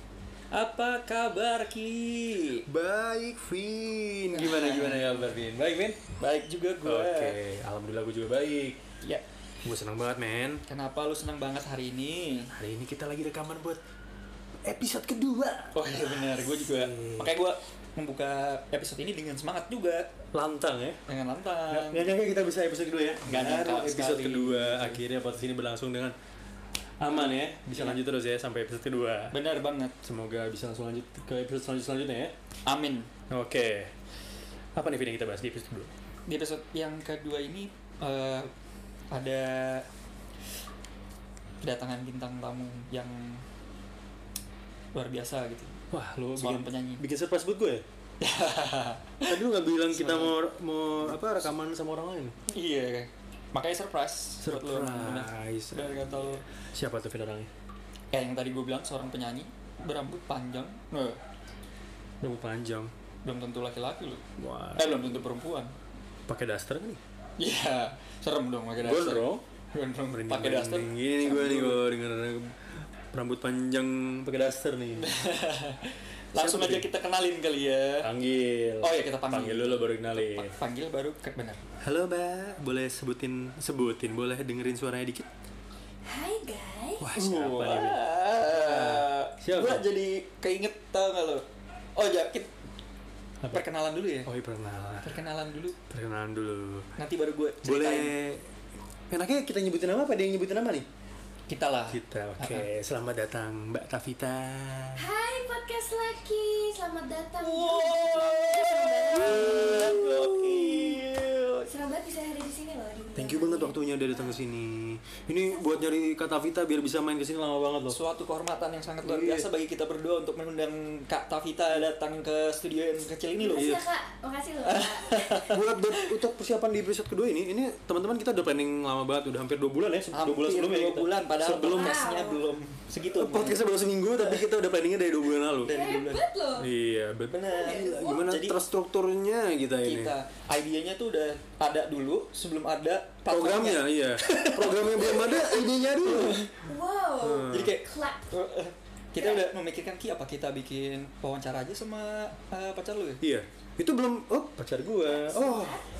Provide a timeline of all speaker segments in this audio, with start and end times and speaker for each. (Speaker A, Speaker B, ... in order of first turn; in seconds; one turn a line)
Speaker A: 0.5-2.7
Speaker B: 2.7-6.0
Speaker A: 4.3-5.0
Speaker A: 6.2-7.4
Speaker B: 6.8-8.8
Speaker B: 9.6-10.6
Speaker A: 10.7-12.5
Speaker B: 12.5-13.8
Speaker B: 14.6-17.3
Speaker A: 15.7-20.1
Speaker B: 20.3-21.0
Speaker A: 21.1-22.1
Speaker B: 21.7-26.1
Speaker A: 23.2-25.0
Speaker B: 27.0-29.3
Speaker A: 27.1-28.0
Speaker A: 29.3-29.9
Speaker B: 30.0-32.3
Speaker A: 32.6-33.1
Speaker B: 33.3-33.9
Speaker B: 34.7-35.9
Speaker A: 36.3-38.5
Speaker A: 39.1-39.9
Speaker A: 41.6-43.4
Speaker A: 44.9-45.8
Speaker B: 45.9-47.8
Speaker A: 46.4-47.0
Speaker A: 48.2-50.4
Speaker B: 49.2-52.3
Speaker A: 52.5-56.4
Speaker B: 54.4-56.1
Speaker B: 56.7-57.5
Speaker A: 58.1-61.2
Speaker B: 62.2-62.9
Speaker A: 63.2-64.2
Speaker B: 64.4-65.2
Speaker A: 64.8-65.7
Speaker B: 66.3-67.0
Speaker A: 67.4-71.8
Speaker B: 68.8-69.4
Speaker B: 70.1-72.6
Speaker B: 73.1-75.1
Speaker A: 75.0-78.1
Speaker B: 76.3-76.9
Speaker B: 78.0-80.5
Speaker A: 78.8-81.6
Speaker B: 81.8-85.3
Speaker C: 86.0-87.0
Speaker B: 87.0-89.8
Speaker A: 87.1-92.5
Speaker A: 93.5-94.3
Speaker B: 94.2-95.2
Speaker A: 95.0-95.8
Speaker B: 95.9-96.9
Speaker A: 97.0-98.1
Speaker B: 97.6-98.5
Speaker B: 99.1-100.9
Speaker A: 101.5-102.7
Speaker B: 101.9-105.0
Speaker C: 105.0-110.0
Speaker A: 107.4-111.7
Speaker B: 109.3-111.0
Speaker C: 111.6-114.4
Speaker B: 113.2-118.0
Speaker A: 117.9-123.7
Speaker B: 119.0-119.5
Speaker C: 123.4-125.5
Speaker B: 123.5-123.8
Speaker A: 124.6-126.0
Speaker B: 125.5-132.0
Speaker A: 130.1-133.6
Speaker C: 131.7-132.4
Speaker B: 133.0-135.8
Speaker A: 134.2-134.4
Speaker A: 135.6-136.2
Speaker C: 135.6-136.7
Speaker B: 136.5-140.1
Speaker A: 137.3-138.6
Speaker C: 137.5-138.3
Speaker A: 139.8-145.5
Speaker B: 143.3-146.4
Speaker A: 146.0-146.5
Speaker C: 146.6-148.2
Speaker B: 147.2-147.8
Speaker A: 147.4-153.2
Speaker C: 149.2-149.4
Speaker B: 153.2-155.8
Speaker C: 155.0-155.8